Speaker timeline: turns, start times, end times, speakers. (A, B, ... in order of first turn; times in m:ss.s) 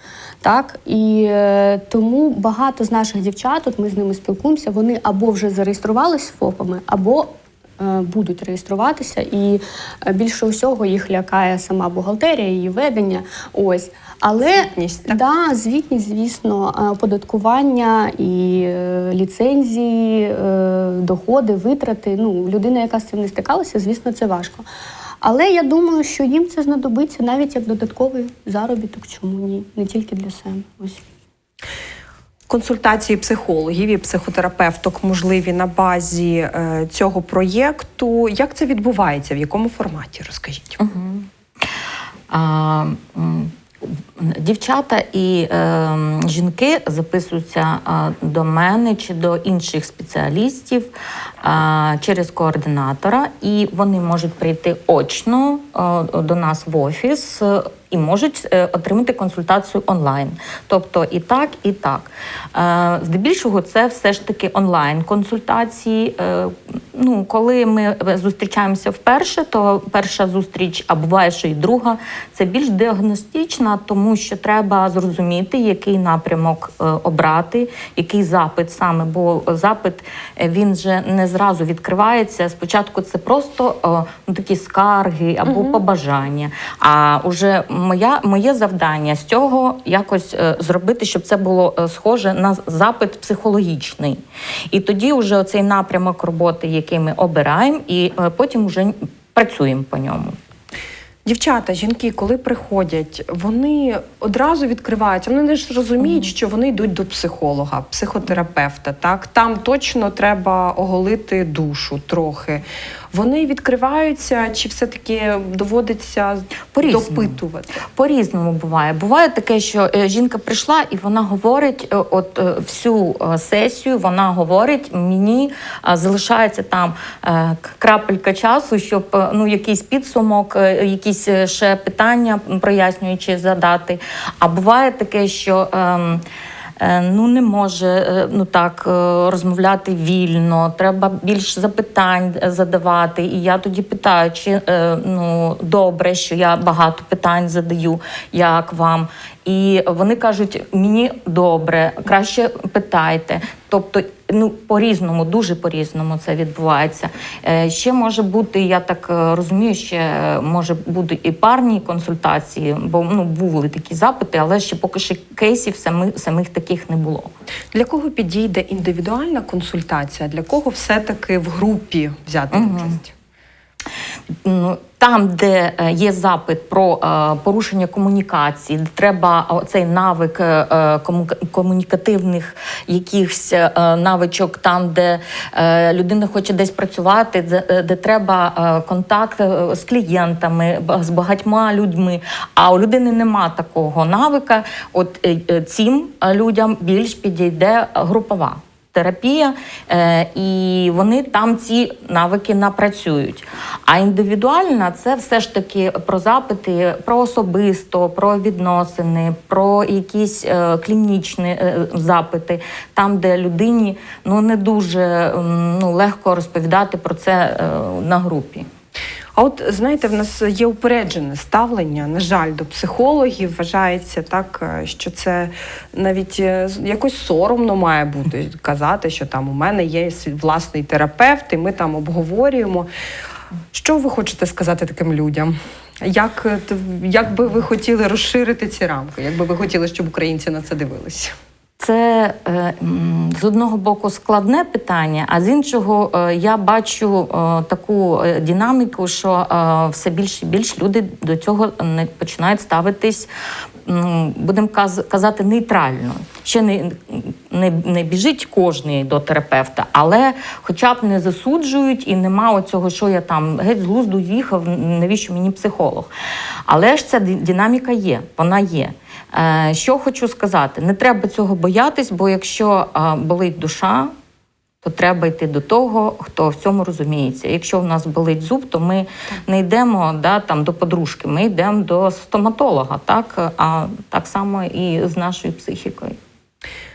0:00.4-0:24.6 A
0:14.4-0:15.2 B
0:25.2-0:31.0 A
0:32.5-0:40.8 B
0:40.8-0:41.6 C
0:42.3-0:50.9 C
0:51.4-1:40.4 C
1:41.2-1:57.8 B
1:56.7-1:57.4 C
1:57.9-2:16.2 C
2:16.8-2:47.3 C
2:47.7-2:53.1 B
2:52.5-2:53.0 C
2:54.3-3:38.7 C
3:39.3-3:52.9 B
3:53.7-4:01.3 B
4:01.8-4:13.3 C
4:13.8-4:26.1 C
4:26.6-4:34.1 C
4:34.8-4:46.2 C